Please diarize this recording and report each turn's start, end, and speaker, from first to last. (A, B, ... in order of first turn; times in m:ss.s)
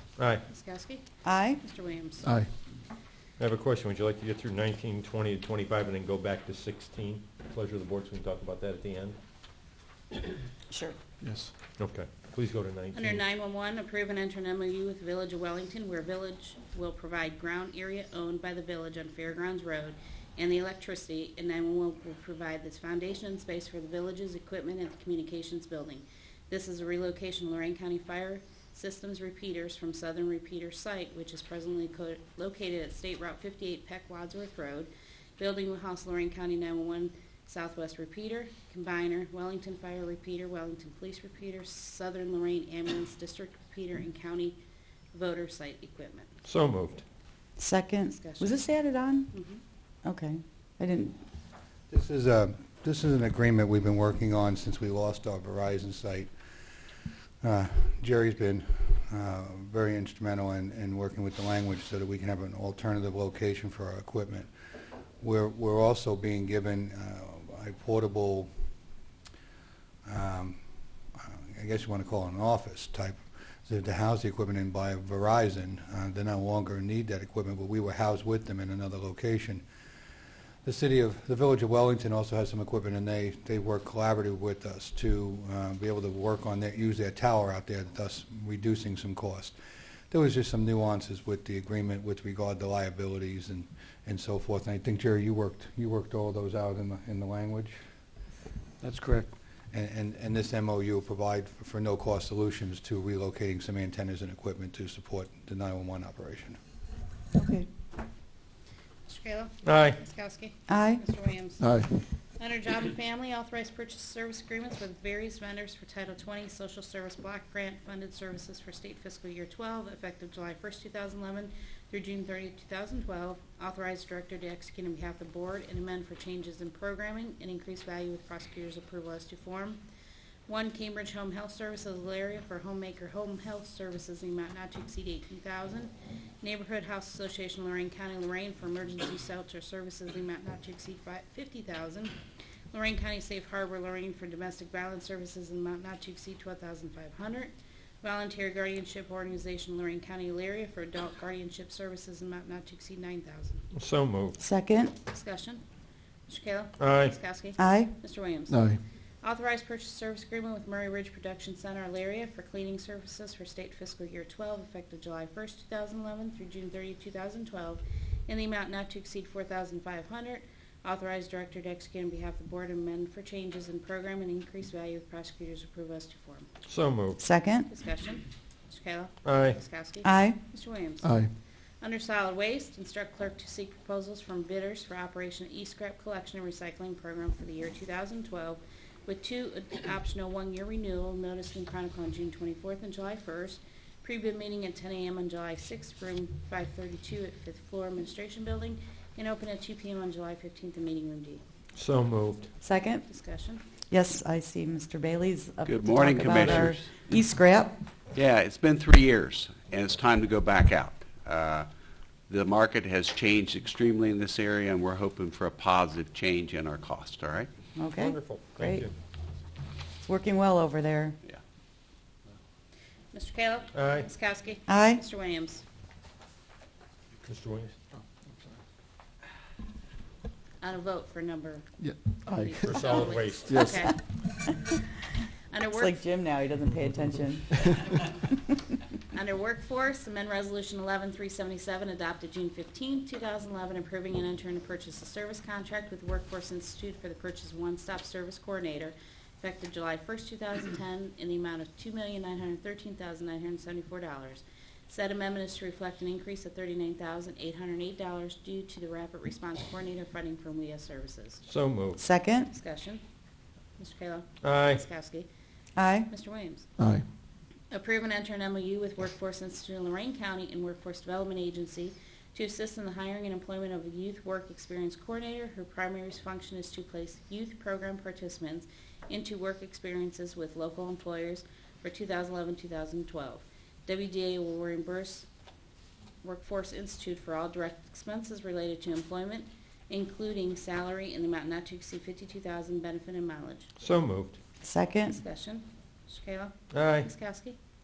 0:00.2-0:00.4 A
0:00.4-0:01.0 B
0:01.2-0:01.6 C
0:01.6-0:02.3 B
0:02.2-0:02.5 D
0:03.4-0:09.2 A
0:10.7-0:11.0 C
0:11.2-0:11.5 D
0:11.8-0:13.2 A
0:12.9-0:44.6 B
0:45.1-0:46.4 B
0:46.4-0:47.0 A
0:47.6-0:49.3 C
0:48.1-0:48.7 B
0:49.3-0:49.6 B
0:50.0-0:51.2 C
0:51.9-0:56.3 E
0:57.4-1:04.5 E
1:05.2-1:08.5 E
1:10.0-1:10.6 E
1:11.2-1:19.6 E
1:20.6-1:29.6 E
1:30.1-1:37.8 E
1:38.8-1:39.2 D
1:39.7-1:46.6 E
1:47.4-1:47.7 C
1:49.1-2:09.8 B
1:49.6-1:50.0 A
1:50.7-1:51.0 C
1:51.6-1:51.9 D
2:10.5-2:22.1 B
2:22.7-2:33.7 B
2:33.7-2:34.4 A
2:34.4-2:34.9 C
2:35.1-2:35.6 B
2:36.3-2:38.6 B
2:36.8-2:37.2 A
2:37.6-2:37.9 C
2:38.5-2:38.8 D
2:39.2-2:56.5 B
2:56.7-2:57.2 A
2:57.2-2:57.7 C
2:57.7-3:01.1 B
2:59.2-2:59.6 A
3:00.0-3:00.4 C
3:01.0-3:01.3 D
3:01.8-3:21.4 B
3:21.8-3:22.5 A
3:22.6-3:23.0 C
3:23.1-3:23.6 B
3:23.9-3:27.8 C
3:25.6-3:27.0 F
3:26.2-3:26.7 A
3:28.1-3:31.7 F
3:32.3-3:37.5 F
3:37.8-3:38.8 C
3:37.9-3:38.9 A
3:40.0-3:41.2 C
3:43.1-3:45.6 B
3:43.7-3:44.1 A
3:44.7-3:45.0 C
3:47.2-3:47.8 A
3:50.6-3:51.7 B
3:51.8-3:52.9 D
3:52.3-3:54.0 B
3:52.6-3:53.9 A
3:53.5-3:53.8 D
3:55.5-3:56.1 B
3:55.8-3:57.7 C
3:59.1-4:21.4 B
4:21.4-4:22.0 A
4:22.0-4:22.5 C
4:22.5-4:23.0 B
4:23.8-4:25.3 B
4:24.4-4:24.8 A
4:25.8-4:26.1 C
4:26.1-4:26.7 B
4:26.8-4:27.0 D
4:27.7-4:45.3 B
4:46.2-4:53.7 B
4:53.8-4:54.4 A
4:54.6-4:55.2 C
4:55.1-4:57.6 B
4:56.7-4:57.1 A